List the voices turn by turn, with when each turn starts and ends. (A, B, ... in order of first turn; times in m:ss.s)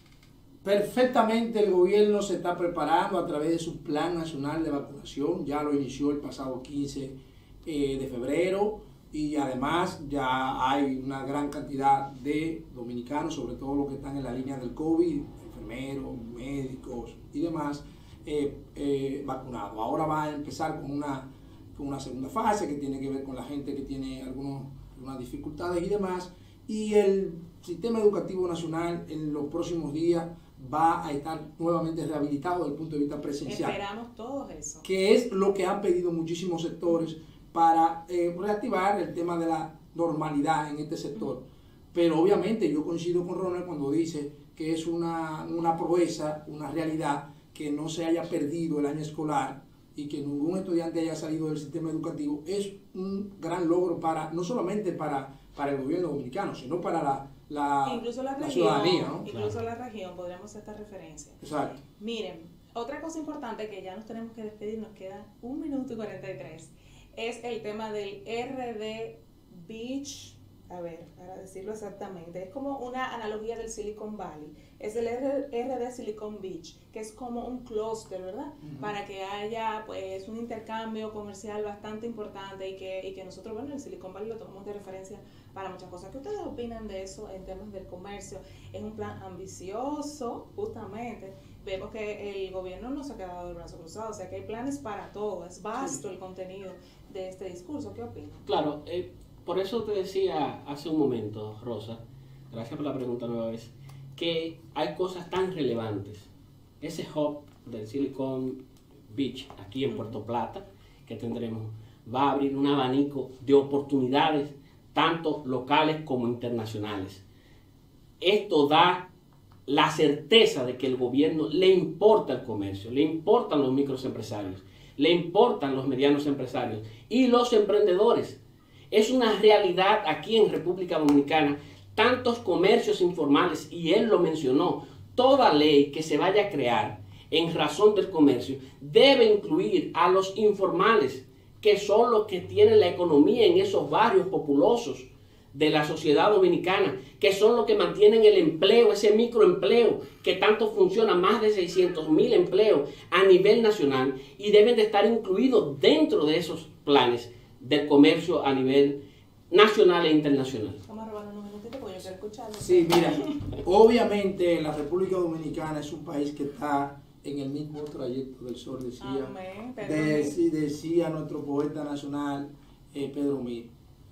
0:00.6-0:33.8 A
0:33.4-0:34.8 B
0:34.8-0:59.3 A
0:57.8-1:38.5 B
1:01.4-1:01.8 A
1:18.6-1:18.9 A
1:38.4-1:42.0 C
1:42.5-1:46.3 C
1:46.8-1:48.6 C
1:49.1-1:57.2 C
1:58.2-1:59.0 C
1:59.7-2:08.4 C
2:08.9-2:39.0 C
2:39.5-2:40.8 C
2:40.8-2:43.4 B
2:42.6-2:53.7 A
2:49.0-2:50.3 B